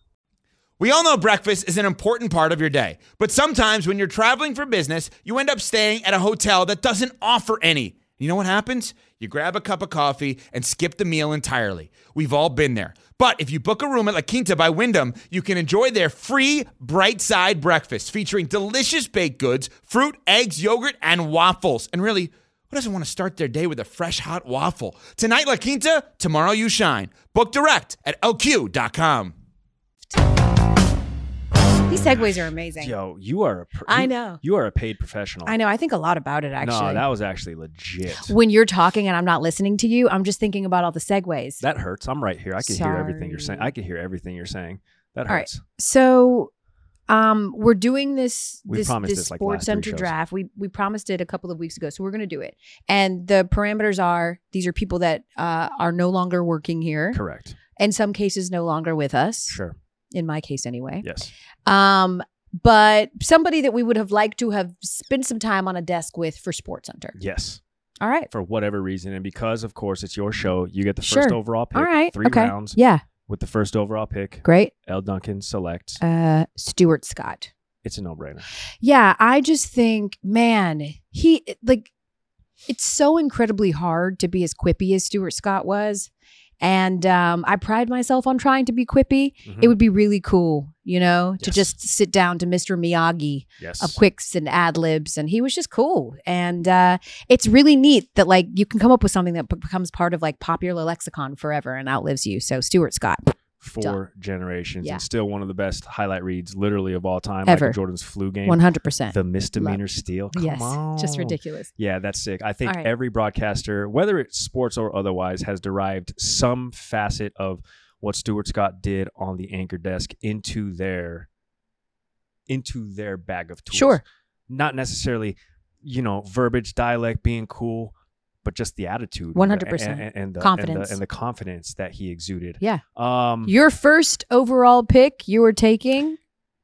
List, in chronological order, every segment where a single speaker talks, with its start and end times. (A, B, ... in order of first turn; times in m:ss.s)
0:00.8-0:29.3 A
0:31.9-0:32.9 B
0:32.8-0:35.6 C
0:33.9-0:34.4 B
0:35.5-0:37.0 B
0:36.6-0:38.3 C
0:38.3-0:41.6 B
0:41.6-0:45.6 C
0:42.6-0:43.7 B
0:45.3-0:46.5 B
0:47.1-0:57.2 B
0:48.7-0:50.1 C
0:57.1-0:57.6 C
0:57.8-0:59.6 B
0:59.5-0:59.8 C
1:00.1-1:01.1 B
1:01.0-1:01.3 C
1:01.7-1:07.2 B
1:07.2-1:07.6 C
1:08.0-1:08.3 B
1:08.3-1:16.0 C
1:11.0-1:13.0 B
1:14.4-1:14.7 B
1:16.0-1:17.5 B
1:17.8-1:18.5 C
1:18.8-1:21.9 B
1:22.7-1:26.1 B
1:26.6-1:44.0 B
1:29.4-1:29.7 C
1:31.4-1:31.7 C
1:33.6-1:34.0 C
1:43.6-1:48.6 C
1:47.5-1:47.8 B
1:48.5-1:49.8 B
1:49.1-2:01.3 C
1:50.3-1:51.7 B
2:02.5-2:07.9 C
2:03.7-2:04.0 B
2:08.4-2:13.5 C
2:09.4-2:11.0 B
2:13.5-2:16.2 B